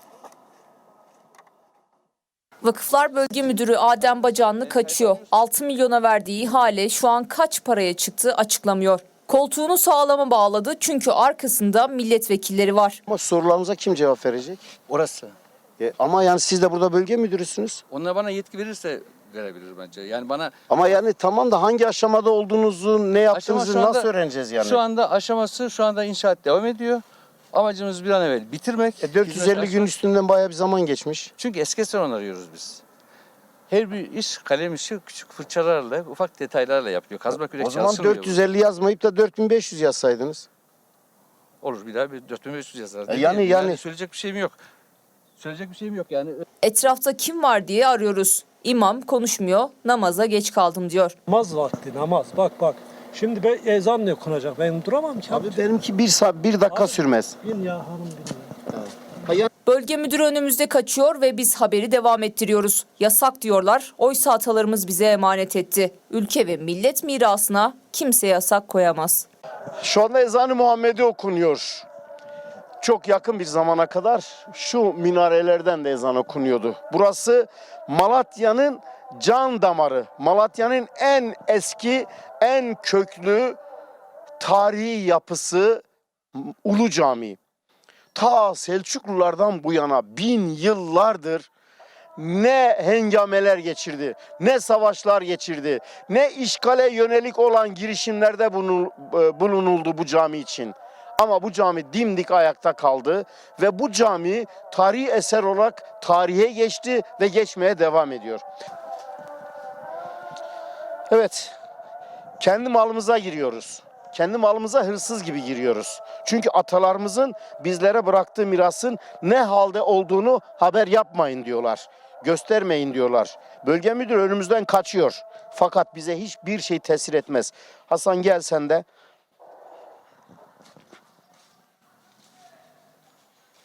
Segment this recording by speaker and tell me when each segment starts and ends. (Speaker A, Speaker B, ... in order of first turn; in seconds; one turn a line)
Speaker A: 2.6-13.0
Speaker B: 4.3-5.2
Speaker C: 13.1-14.7
Speaker B: 14.9-15.3
Speaker C: 15.8-17.8
Speaker B: 17.9-20.5
Speaker C: 20.7-24.8
Speaker B: 23.3-29.9
Speaker C: 29.0-31.3
Speaker B: 31.4-32.8
Speaker B: 33.7-38.4
Speaker C: 37.5-40.5
Speaker B: 41.6-44.6
Speaker C: 43.1-43.8
Speaker B: 45.4-46.4
Speaker A: 46.6-51.1
Speaker D: 51.3-55.6
Speaker C: 55.3-57.4
Speaker D: 56.7-58.7
Speaker A: 59.6-69.2
Speaker C: 69.8-71.8
Speaker C: 72.8-83.6
Speaker C: 84.4-85.8
Speaker C: 86.3-87.4
Speaker C: 88.1-91.5
Speaker C: 92.2-108.4
Speaker C: 111.1-111.5
Speaker C: 112.4-128.8